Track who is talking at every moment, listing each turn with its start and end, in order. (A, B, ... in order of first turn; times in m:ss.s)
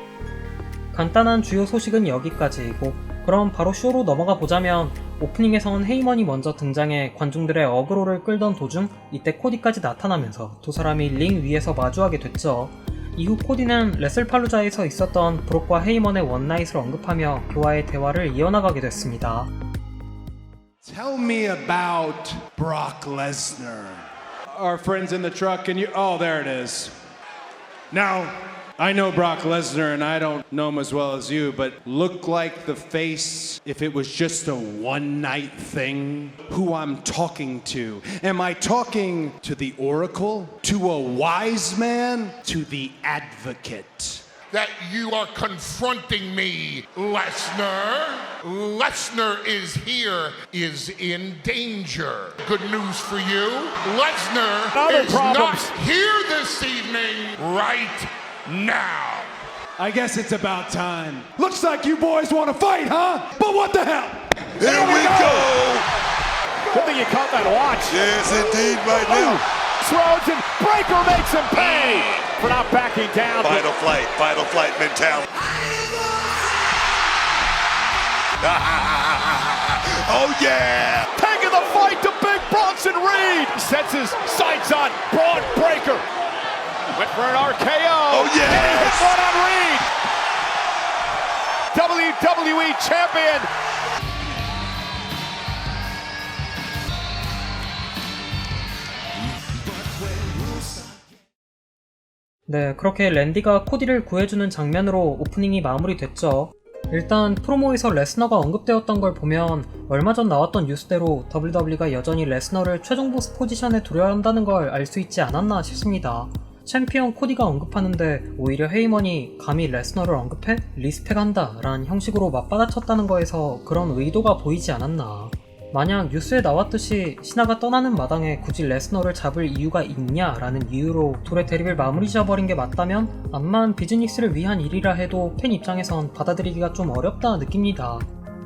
0:00.9-0:19.5 A
0:20.8-0:26.9 B
0:27.9-0:44.2 B
0:44.5-0:59.3 C
0:54.7-0:55.7 D
0:59.8-1:05.3 B
1:04.6-1:05.9 E
1:04.8-1:05.3 D
1:06.7-1:13.7 D
1:07.9-1:09.4 E
1:11.6-1:12.2 E
1:13.4-1:15.3 E
1:18.4-1:21.1 E
1:21.2-1:26.0 D
1:26.9-1:29.9 D
1:28.1-1:29.2 E
1:31.7-1:33.5 D
1:42.5-2:18.1 A